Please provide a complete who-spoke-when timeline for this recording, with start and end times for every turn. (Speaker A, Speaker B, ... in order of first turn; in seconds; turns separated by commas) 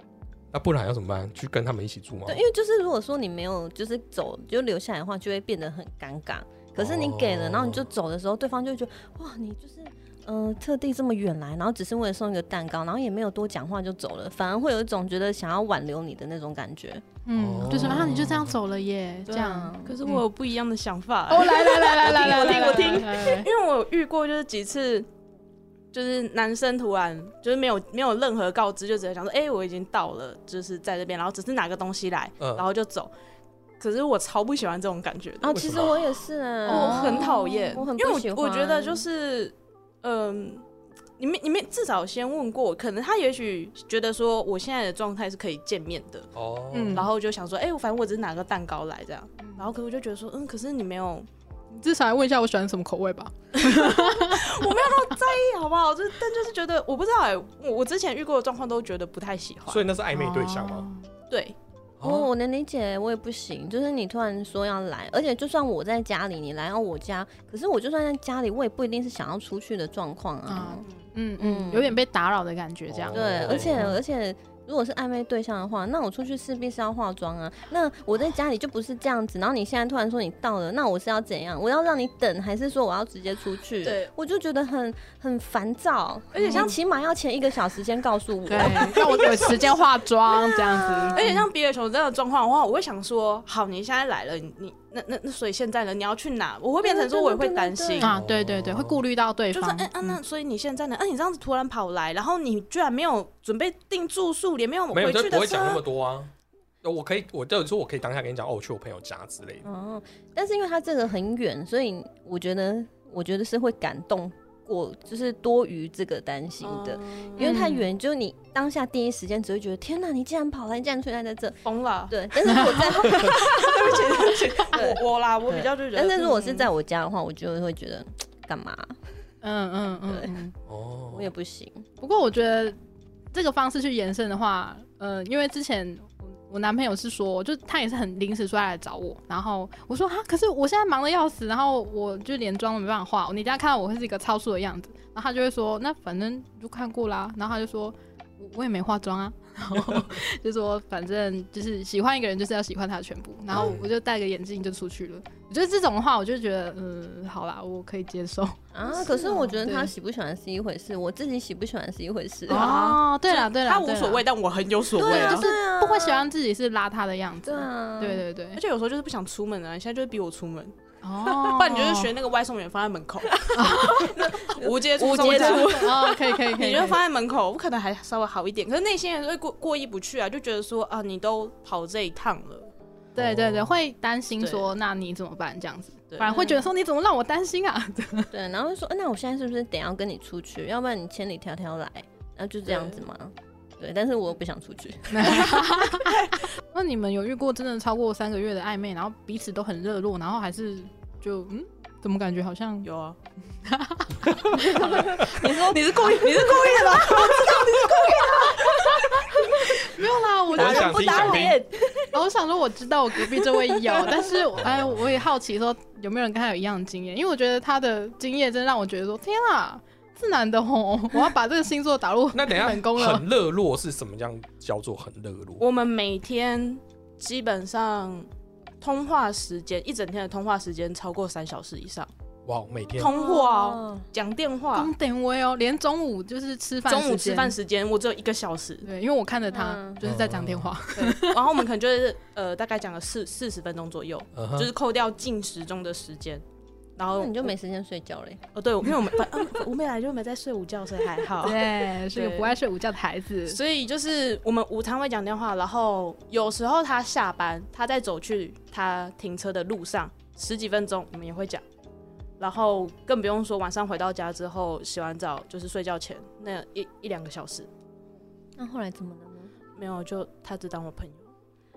Speaker A: 0.5-2.5, Speaker B: 2.3-17.0, Speaker A: 6.8-7.8, Speaker C: 17.3-20.2, Speaker A: 17.4-18.5, Speaker D: 19.3-25.1, Speaker B: 19.3-20.0, Speaker C: 21.3-23.5, Speaker B: 22.1-23.2, Speaker D: 25.9-33.1, Speaker D: 33.8-36.0, Speaker B: 35.4-39.0, Speaker A: 35.5-36.0, Speaker C: 36.7-37.7, Speaker D: 36.7-40.6, Speaker D: 41.2-46.3, Speaker A: 46.3-47.1, Speaker C: 46.7-47.1, Speaker D: 46.9-51.3, Speaker C: 49.4-49.7, Speaker C: 51.7-54.6, Speaker D: 53.6-59.8, Speaker A: 59.7-60.9, Speaker C: 60.1-61.1, Speaker D: 61.3-61.6, Speaker A: 62.0-62.3, Speaker B: 62.0-70.8, Speaker C: 70.5-73.5, Speaker B: 71.4-72.0, Speaker A: 72.9-74.0, Speaker B: 73.1-91.3, Speaker D: 83.8-84.1, Speaker D: 86.3-86.8, Speaker C: 86.4-86.7, Speaker C: 88.5-91.4, Speaker D: 88.5-89.6, Speaker D: 91.1-98.1, Speaker B: 96.8-98.1, Speaker C: 98.0-100.2, Speaker A: 98.1-99.0, Speaker D: 99.5-105.8, Speaker A: 104.9-106.3, Speaker A: 106.8-109.7, Speaker B: 109.7-129.0, Speaker D: 116.6-117.7, Speaker C: 117.4-117.9, Speaker D: 121.6-126.7, Speaker C: 122.5-123.2, Speaker C: 129.4-130.5, Speaker B: 130.1-130.3, Speaker A: 130.7-131.3, Speaker B: 131.1-131.9, Speaker C: 132.0-132.8, Speaker C: 133.3-159.9, Speaker A: 153.6-153.9, Speaker B: 158.7-162.9, Speaker C: 162.5-164.2, Speaker D: 162.5-165.5, Speaker B: 165.0-166.3, Speaker C: 165.0-168.6, Speaker B: 167.4-168.3, Speaker D: 168.6-182.7, Speaker C: 171.0-172.1, Speaker B: 173.4-176.4, Speaker C: 173.5-174.3, Speaker C: 175.0-177.0, Speaker A: 183.2-183.7, Speaker C: 183.2-188.3, Speaker D: 184.4-184.7, Speaker D: 186.1-186.7, Speaker B: 186.3-186.6, Speaker B: 188.3-195.7, Speaker D: 192.7-193.0, Speaker C: 195.1-196.2, Speaker D: 196.1-196.4, Speaker C: 196.7-202.9, Speaker D: 202.8-203.2, Speaker C: 203.6-205.3, Speaker B: 204.6-209.7, Speaker D: 204.9-209.3, Speaker C: 209.7-211.5, Speaker B: 210.5-212.2, Speaker A: 210.6-211.6, Speaker C: 212.1-223.2, Speaker B: 213.8-214.1, Speaker A: 214.6-215.2, Speaker A: 222.3-225.7, Speaker D: 225.6-228.3, Speaker D: 228.8-232.1, Speaker A: 232.5-233.1, Speaker D: 232.9-234.9, Speaker B: 233.0-234.1, Speaker C: 234.8-237.5, Speaker D: 236.9-238.9, Speaker C: 238.8-241.4, Speaker B: 239.5-240.0, Speaker A: 240.0-240.7, Speaker D: 240.9-246.4, Speaker A: 244.3-244.7, Speaker D: 247.0-247.6, Speaker B: 247.1-248.4, Speaker D: 248.6-252.6, Speaker C: 251.4-253.6, Speaker D: 253.5-261.6, Speaker D: 262.4-267.7, Speaker B: 268.6-269.5, Speaker D: 269.8-271.3